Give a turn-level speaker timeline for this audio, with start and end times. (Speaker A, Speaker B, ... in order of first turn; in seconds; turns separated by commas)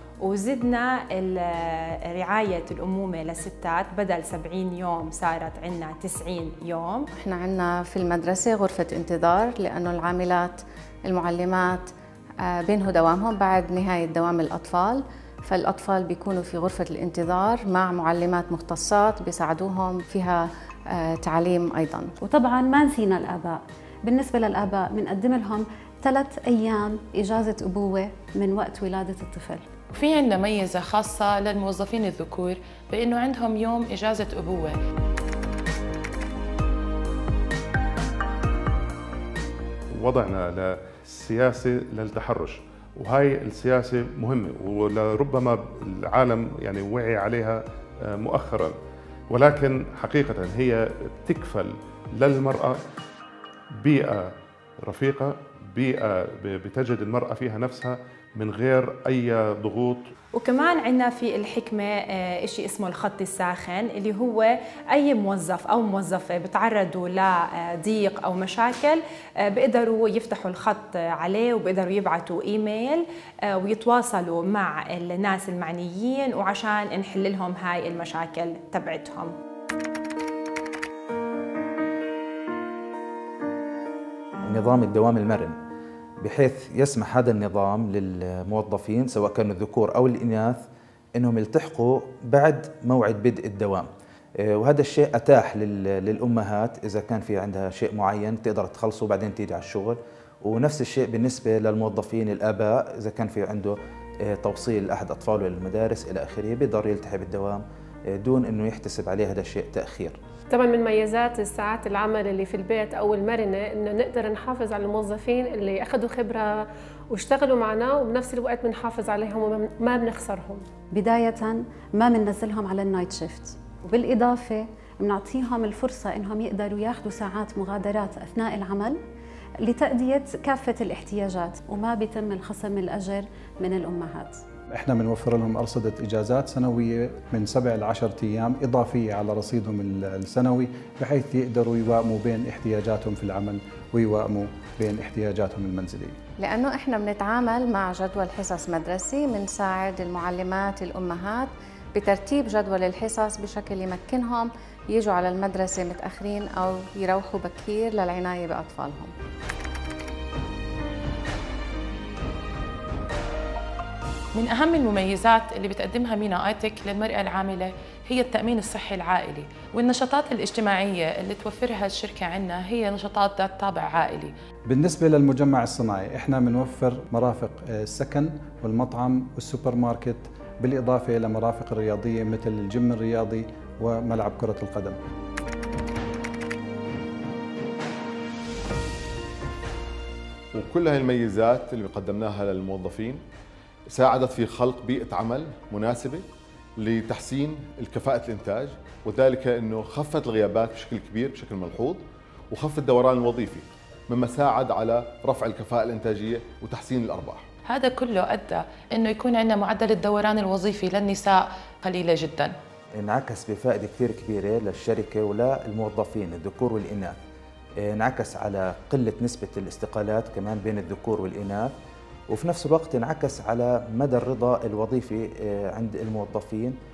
Speaker A: 0.3-7.0, Speaker B: 7.2-11.9, Speaker B: 12.4-22.1, Speaker C: 22.2-29.7, Speaker D: 29.9-34.8, Speaker E: 39.9-48.8, Speaker E: 49.3-52.8, Speaker E: 53.8-60.1, Speaker A: 60.4-73.0, Speaker A: 73.6-79.3, Speaker F: 84.4-85.6, Speaker F: 86.2-90.6, Speaker F: 91.2-110.2, Speaker G: 110.5-116.5, Speaker G: 117.1-120.7, Speaker C: 120.9-129.0, Speaker C: 129.6-134.4, Speaker H: 134.7-146.2, Speaker B: 146.4-159.1, Speaker D: 164.4-174.3, Speaker H: 174.7-185.0, Speaker I: 190.5-193.2, Speaker I: 193.9-196.3, Speaker I: 196.8-207.5, Speaker D: 207.7-212.5, Speaker F: 212.9-217.2, Speaker F: 217.8-221.7, Speaker F: 222.3-226.8